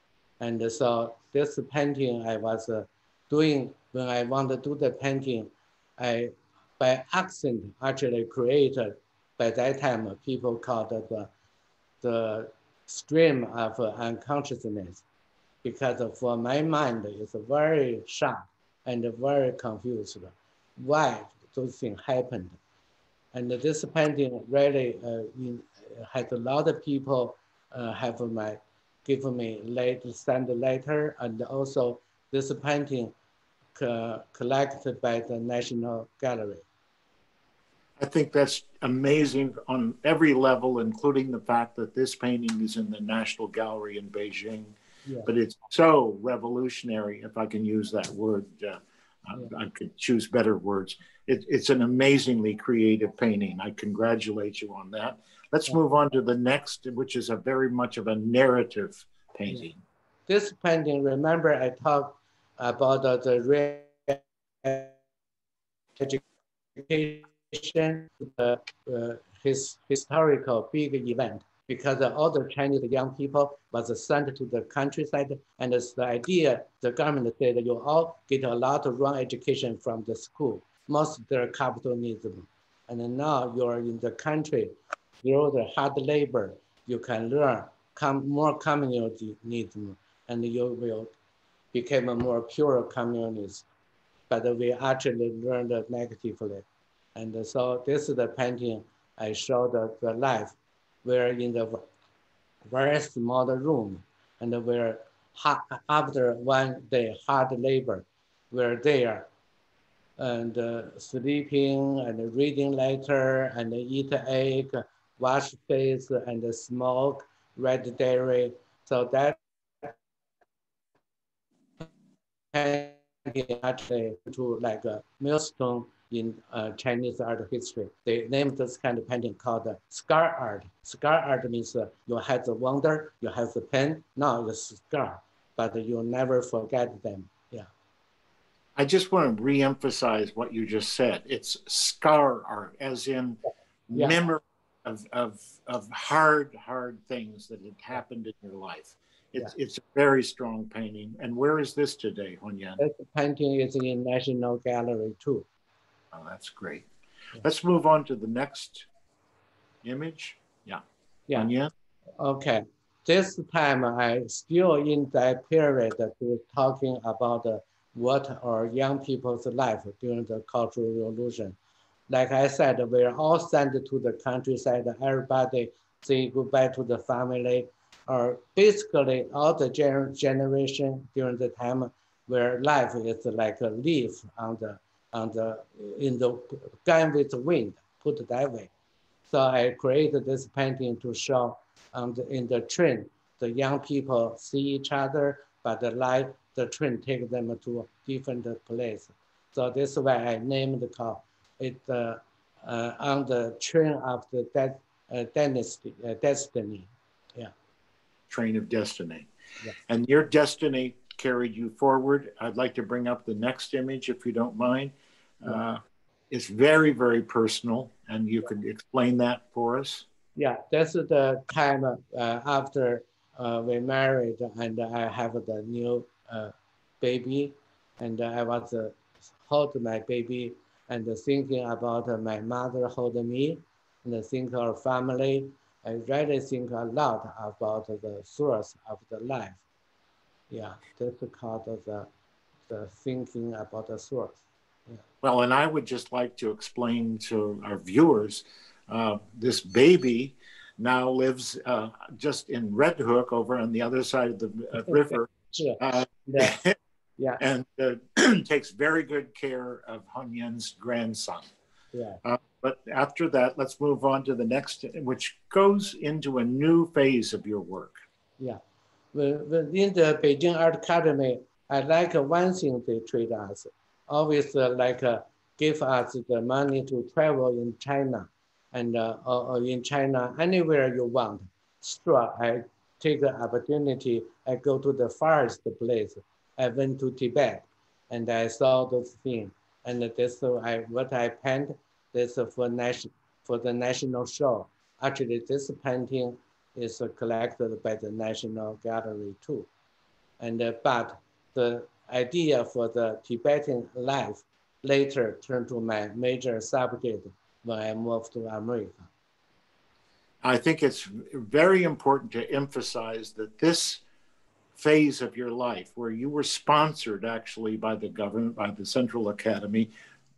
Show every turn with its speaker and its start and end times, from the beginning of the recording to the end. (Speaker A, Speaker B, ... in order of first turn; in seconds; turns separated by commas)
Speaker A: 0.4-11.3, Speaker A: 12.0-15.0, Speaker A: 15.6-22.6, Speaker A: 23.3-33.1, Speaker A: 33.8-36.7, Speaker B: 38.0-59.8, Speaker A: 60.3-65.0, Speaker A: 66.8-91.1, Speaker A: 91.7-93.7, Speaker A: 94.3-101.8, Speaker A: 102.7-109.3, Speaker A: 110.2-120.0, Speaker A: 122.5-137.7, Speaker B: 138.8-152.8, Speaker A: 152.8-155.5, Speaker B: 156.1-156.9, Speaker B: 157.4-158.9, Speaker B: 159.8-160.8, Speaker B: 161.3-161.7, Speaker A: 162.2-171.6, Speaker A: 172.1-188.7, Speaker A: 189.3-207.5, Speaker B: 208.3-209.3, Speaker B: 209.9-220.1, Speaker A: 220.4-239.6, Speaker A: 240.5-242.1, Speaker A: 242.7-245.0, Speaker B: 245.2-255.3, Speaker A: 254.9-256.6, Speaker B: 255.8-256.8, Speaker B: 257.4-261.5, Speaker A: 261.9-262.2, Speaker B: 262.2-268.0, Speaker A: 269.1-299.7, Speaker A: 300.4-309.1, Speaker B: 310.4-314.0, Speaker B: 314.8-319.9